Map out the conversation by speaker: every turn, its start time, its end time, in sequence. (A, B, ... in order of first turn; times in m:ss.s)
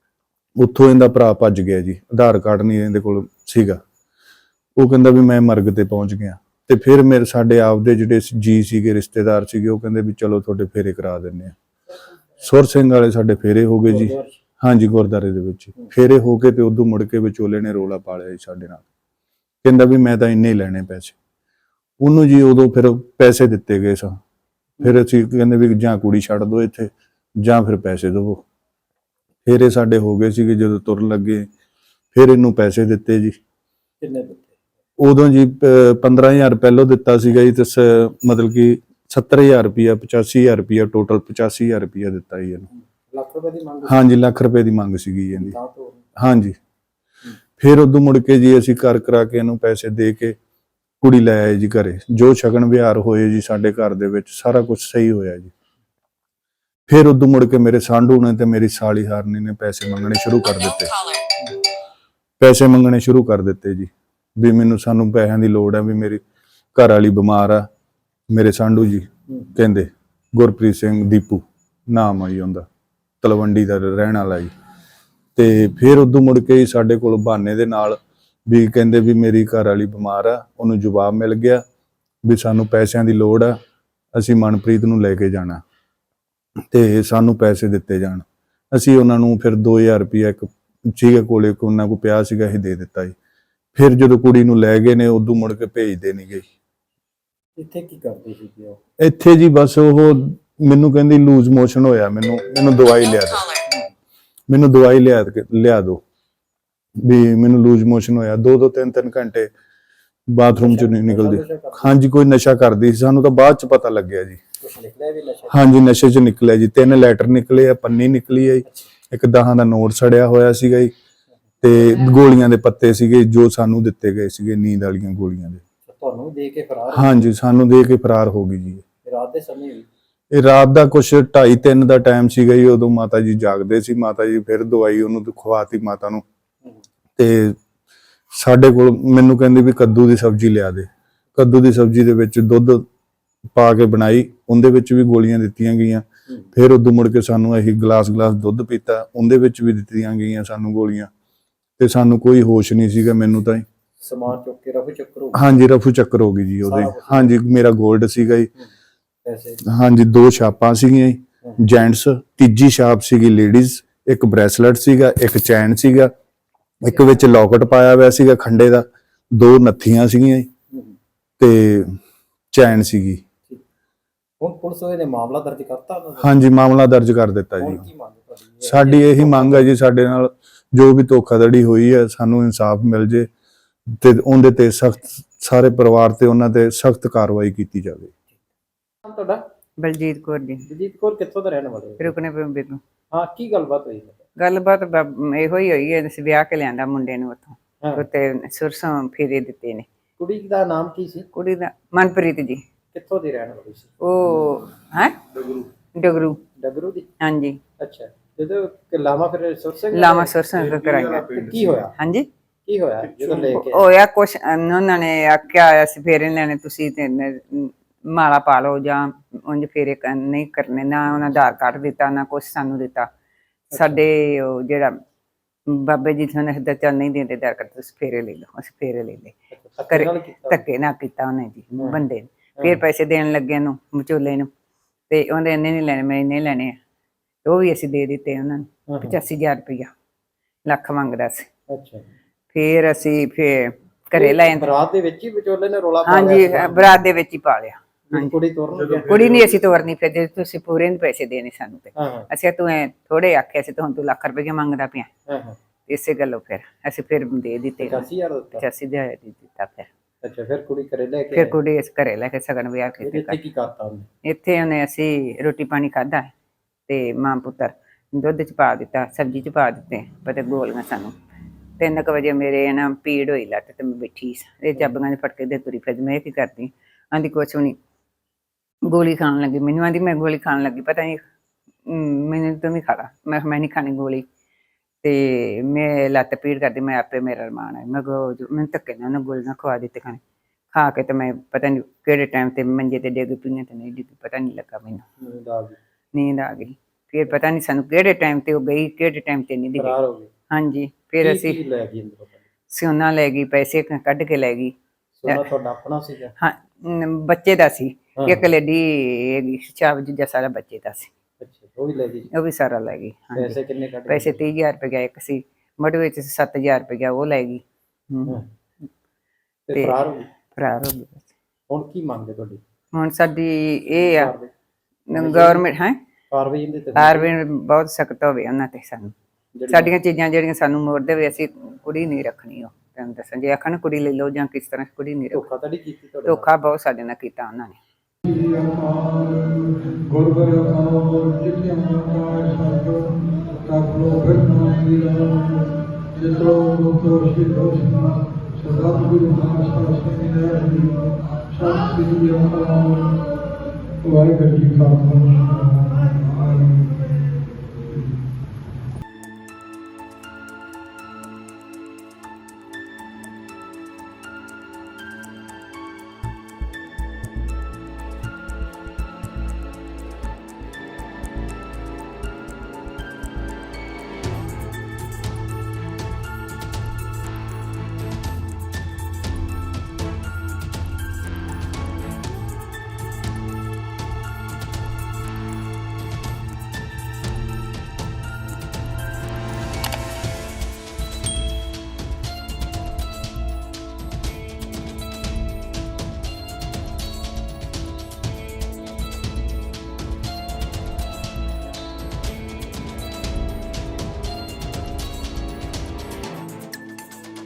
0:00.6-0:03.8 A
0:04.8-0:11.5 A
0:12.4-0:18.8 A
0:13.9-0:14.4 B
0:19.6-0:21.2 A
0:22.0-0:24.2 A
0:24.8-0:28.4 A
0:29.4-0:31.5 A
0:32.1-0:33.4 A
0:34.0-0:34.5 B
0:35.0-0:42.7 A
0:42.7-0:44.0 B
0:43.9-0:45.5 A
0:45.3-0:46.0 B
0:46.2-0:46.5 A
0:47.6-0:50.3 A
0:51.0-0:55.5 A
0:56.9-1:01.1 A
1:02.4-1:06.2 A
1:06.7-1:07.6 A
1:08.3-1:12.6 A
1:13.2-1:14.5 A
1:15.4-1:21.6 A
1:22.2-1:23.5 A
1:24.1-1:25.6 A
1:26.7-1:33.1 A
1:33.8-1:36.4 A
1:37.6-1:38.8 B
1:39.0-1:43.5 A
1:44.5-1:46.0 A
1:47.0-1:49.5 A
1:50.3-1:54.4 A
1:50.6-1:52.0 B
1:54.6-1:55.7 B
1:55.5-2:00.9 A
2:01.6-2:05.6 A
2:05.8-2:07.1 B
2:06.9-2:08.8 A
2:09.0-2:09.9 B
2:10.3-2:16.2 A
2:17.2-2:17.6 A
2:18.3-2:22.8 A
2:23.5-2:31.1 A
2:31.8-2:33.6 A
2:34.0-2:35.5 B
2:35.3-2:38.5 A
2:36.6-2:37.4 B
2:39.2-2:39.6 B
2:39.7-2:46.1 A
2:46.8-2:50.5 A
2:51.4-2:52.0 A
2:52.5-2:53.2 A
2:54.4-2:56.3 B
2:56.2-2:57.8 A
2:57.6-2:59.7 B
2:58.6-3:03.3 A
3:03.9-3:08.1 A
3:09.0-3:09.4 B
3:09.8-3:10.6 C
3:10.6-3:12.1 B
3:12.0-3:12.8 C
3:13.1-3:14.2 B
3:14.4-3:19.8 C
3:20.2-3:21.3 B
3:21.3-3:22.6 C
3:22.9-3:23.9 B
3:24.0-3:25.2 C
3:25.4-3:25.6 A
3:26.0-3:26.4 C
3:26.6-3:27.1 B
3:27.2-3:27.6 C
3:27.8-3:30.3 B
3:29.9-3:31.3 C
3:30.6-3:31.8 A
3:31.0-3:31.9 B
3:32.0-3:32.3 C
3:32.6-3:33.9 B
3:33.4-3:43.1 C
3:43.7-3:45.0 C
3:45.7-3:49.3 C
3:49.5-3:50.6 B
3:49.9-3:54.5 C
3:55.1-3:56.8 C
3:57.4-3:59.9 C
3:58.9-3:59.2 B
4:00.6-4:01.5 C
4:01.7-4:02.0 B
4:02.5-4:04.7 C
4:04.1-4:07.0 B
4:06.0-4:08.3 C
4:08.1-4:09.2 B
4:09.1-4:15.1 C
4:09.1-4:09.4 A
4:12.0-4:12.3 B
4:15.3-4:15.6 B
4:15.9-4:19.9 C
4:17.8-4:18.6 B
4:20.2-4:21.6 B
4:21.3-4:23.4 C
4:23.0-4:24.1 B
4:24.3-4:26.3 C
4:26.9-4:31.1 C
4:31.8-4:37.8 C
4:38.9-4:41.2 C
4:41.9-4:44.2 C
4:45.0-4:50.2 C
4:50.7-4:55.0 C
4:55.2-4:55.8 B
4:56.1-5:00.0 C
4:59.8-5:00.3 B
5:00.5-5:01.6 C
5:01.2-5:02.4 B
5:02.7-5:04.7 C
5:05.2-5:06.3 B
5:06.4-5:11.1 C
5:11.4-5:12.3 B
5:12.3-5:13.6 C
5:13.3-5:14.4 B
5:14.1-5:18.3 C
5:19.7-5:20.2 B
5:19.7-5:20.0 C
5:20.5-5:21.3 C
5:21.7-5:22.6 B
5:22.9-5:24.3 C
5:24.0-5:24.5 B
5:25.1-5:26.0 C
5:25.1-5:25.6 B
5:26.3-5:27.3 B
5:27.0-5:29.1 C
5:29.5-5:29.9 B
5:29.7-5:35.5 C
5:35.3-5:36.5 B
5:36.2-5:37.8 C
5:38.2-5:43.1 D
5:43.6-5:53.1 D
5:54.0-5:57.1 D